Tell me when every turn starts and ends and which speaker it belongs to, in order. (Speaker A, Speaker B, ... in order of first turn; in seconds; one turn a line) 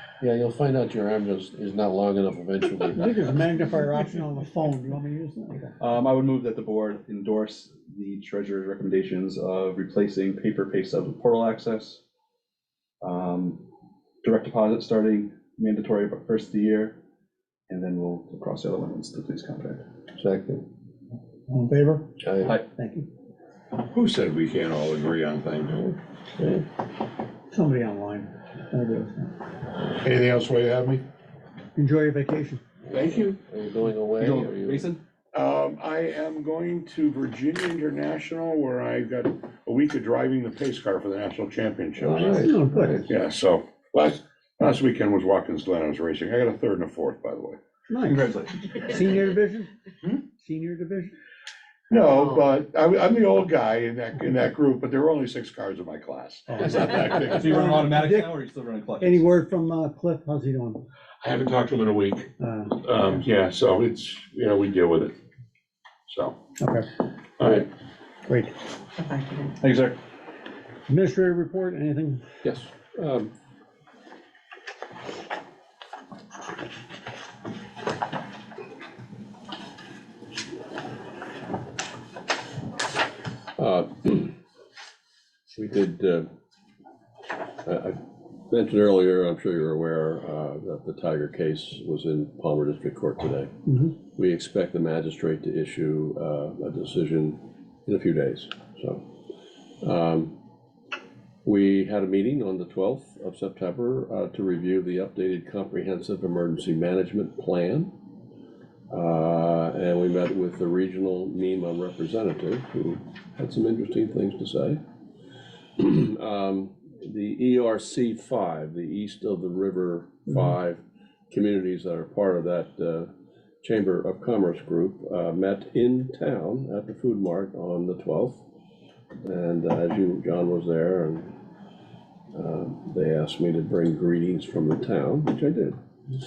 Speaker A: 0.2-3.3
Speaker B: 2.9-5.7
Speaker C: 5.8-12.0
Speaker C: 13.0-13.7
Speaker C: 14.2-17.0
Speaker C: 17.7-19.8
Speaker A: 20.2-20.7
Speaker B: 21.5-23.1
Speaker A: 22.2-22.6
Speaker D: 23.9-25.9
Speaker A: 26.4-26.7
Speaker B: 27.5-29.3
Speaker D: 30.0-31.0
Speaker B: 31.8-32.6
Speaker D: 32.9-33.4
Speaker A: 33.0-34.9
Speaker C: 34.2-35.0
Speaker D: 35.3-42.5
Speaker A: 42.0-43.1
Speaker B: 42.1-43.0
Speaker D: 43.1-47.6
Speaker B: 47.9-49.7
Speaker C: 48.0-48.8
Speaker B: 50.4-51.2
Speaker D: 51.9-57.9
Speaker B: 56.5-58.4
Speaker C: 57.3-59.3
Speaker B: 59.0-60.8
Speaker D: 61.2-65.1
Speaker B: 62.4-63.2
Speaker D: 66.1-66.4
Speaker B: 66.6-66.9
Speaker D: 67.4-67.7
Speaker B: 68.3-68.6
Speaker C: 69.6-70.0
Speaker B: 70.9-72.2
Speaker A: 72.4-73.3
Speaker A: 83.6-84.4
Speaker A: 85.5-86.3
Speaker A: 87.7-99.1
Speaker B: 93.7-93.9
Speaker A: 99.8-100.3
Speaker A: 101.5-107.9
Speaker A: 108.9-114.8
Speaker A: 115.8-123.1
Speaker A: 123.6-128.4
Speaker A: 129.2-131.4
Speaker A: 132.3-135.8